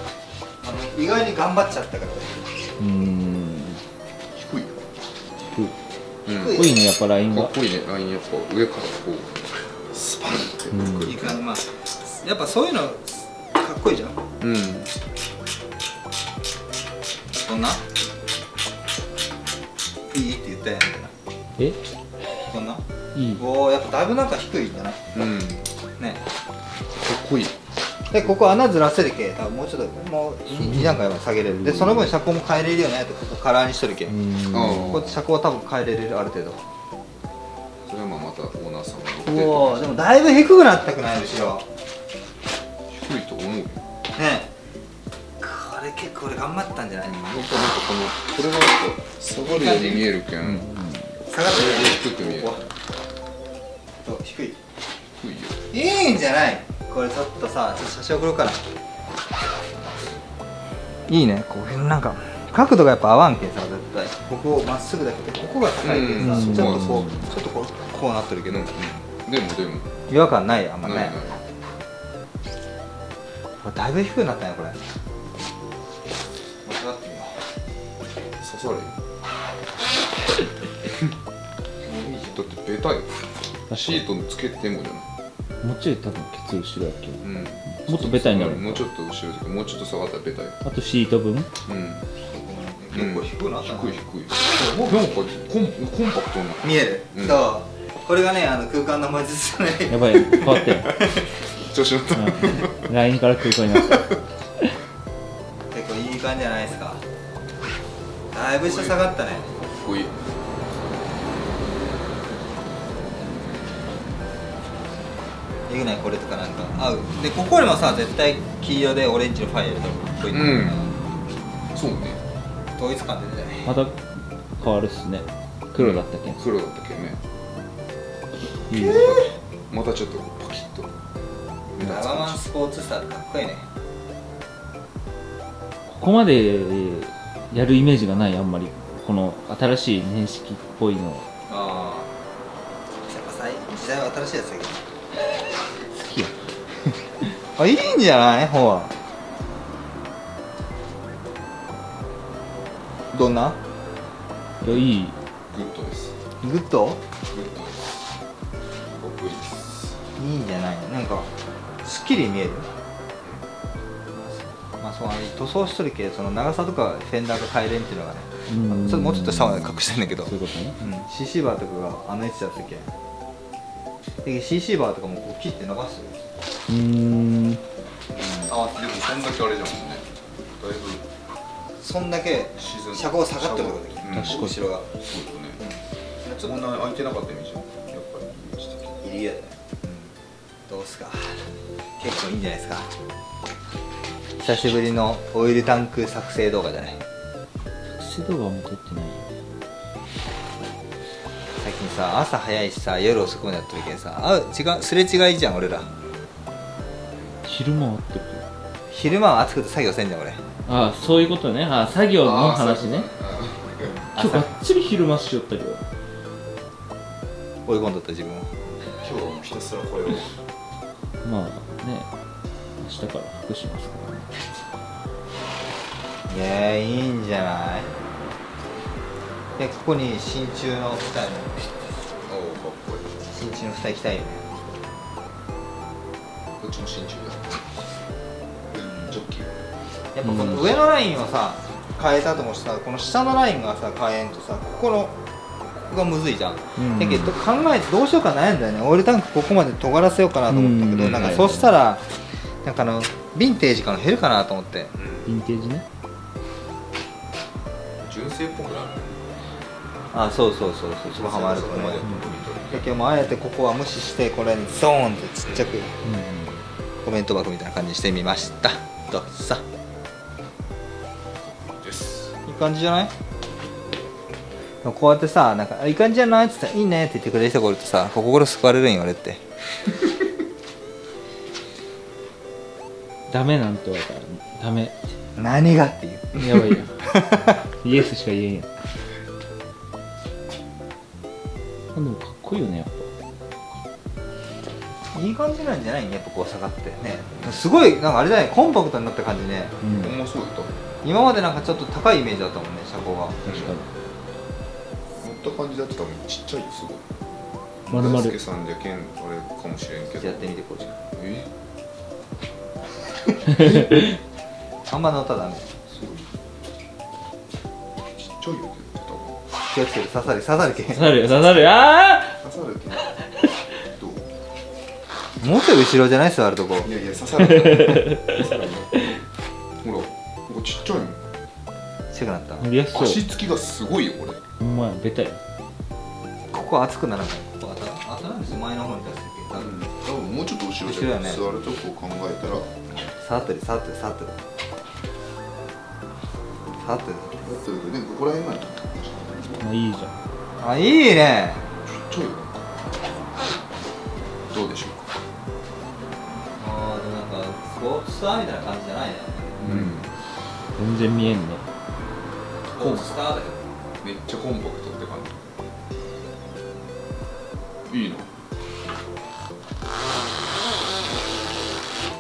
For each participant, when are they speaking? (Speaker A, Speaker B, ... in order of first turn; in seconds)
Speaker A: 0.6-2.5, 6.3-6.7, 11.0-14.2, 17.4-17.8, 20.1-21.1, 22.5-22.8, 23.4-25.0, 28.1-34.1, 34.8-36.6, 39.2-41.6, 44.1-44.5, 45.4-47.5, 49.5-50.1, 51.3-52.7, 54.0-54.6, 55.7-58.6, 61.1-69.0, 70.1-71.2, 73.6-74.8, 76.6-77.4, 81.8-82.5, 92.2-95.0, 96.6-100.3, 105.7-107.0, 108.3-109.6, 115.7-120.9, 122.8-123.7, 128.7-129.3, 131.8-133.7, 141.5-142.1, 143.1-144.8, 147.6-148.9, 153.1-153.6, 156.4-157.0, 160.2-161.3, 161.8-162.7, 164.1-172.9, 174.2-176.2, 178.4-178.8, 181.8-184.9, 185.6-186.6, 189.0-190.1, 190.7-192.9, 194.4-197.0, 201.6-205.9, 208.9-210.4, 214.2-214.5, 217.7-218.5, 226.3-227.9, 229.6-231.9, 233.3-234.4, 240.1-245.2, 245.7-252.1, 252.6-254.9, 260.1-262.0, 262.7-265.9, 267.0-269.6, 272.4-273.1, 274.8-279.4, 285.4-287.6, 295.1-299.8, 301.0-303.7, 310.1-310.9, 313.6-313.9, 314.9-315.7, 319.7-321.2, 325.4-326.9, 332.1-332.7, 336.5-339.8, 340.8-341.4, 343.1-344.4, 346.8-347.4, 350.6-351.7, 356.6-359.6, 362.8-363.6
Speaker B: 2.8-3.8, 6.4-7.5, 10.7-11.3, 23.1-23.4, 30.5-32.1, 34.1-35.0, 50.4-51.1, 66.2-67.3, 83.7-84.0, 85.6-88.8, 90.6-91.5, 99.9-100.9, 102.1-104.7, 123.7-124.0, 124.6-126.4, 128.7-129.2, 135.9-141.3, 145.9-146.5, 154.6-155.1, 168.5-170.8, 176.7-177.6, 184.1-184.6, 197.9-199.3, 207.4-208.5, 210.7-213.1, 214.1-215.8, 221.2-222.1, 222.8-224.3, 240.2-240.8, 246.8-247.3, 250.5-251.7, 255.2-255.8, 266.0-266.6, 283.3-284.9, 286.4-287.1, 287.8-288.7, 291.9-293.1, 299.8-300.2, 303.4-303.9, 307.9-308.4, 313.5-314.2, 320.9-322.4, 327.4-328.4, 332.6-333.3, 334.6-335.4, 349.6-350.2, 359.6-359.9, 360.8-361.6
Speaker C: 4.3-4.8, 6.2-6.7, 7.3-9.4, 9.9-11.4, 14.4-14.9, 25.1-25.6, 26.9-27.6, 34.5-35.2, 37.9-40.0, 42.9-43.8, 47.1-50.7, 51.3-52.6, 55.2-55.6, 65.8-67.1, 68.5-69.9, 70.8-71.4, 78.4-78.9, 82.3-85.1, 87.2-90.6, 91.7-92.0, 92.9-97.4, 100.2-102.8, 103.7-104.0, 108.7-109.0, 109.7-110.2, 120.3-120.8, 121.7-122.2, 125.8-127.2, 128.8-131.0, 131.7-132.4, 154.6-154.9, 155.5-156.1, 157.3-157.9, 158.9-160.0, 178.1-181.1, 182.6-185.6, 186.4-189.2, 212.2-213.9, 218.8-220.3, 232.3-233.1, 236.6-237.8, 238.7-239.6, 251.0-251.4, 254.9-255.3, 258.0-259.3, 261.0-263.0, 271.4-272.3, 299.9-300.7, 303.4-303.7, 305.2-307.0, 307.9-310.5, 311.1-311.5, 315.9-316.3, 318.1-319.4, 321.1-321.7, 322.4-323.1, 323.9-324.3, 326.8-329.1, 329.8-331.2, 332.9-334.4, 339.5-342.8, 347.4-349.6, 351.9-353.0, 354.5-355.1, 359.6-360.1, 362.8-363.1, 364.0-365.5, 367.9-368.3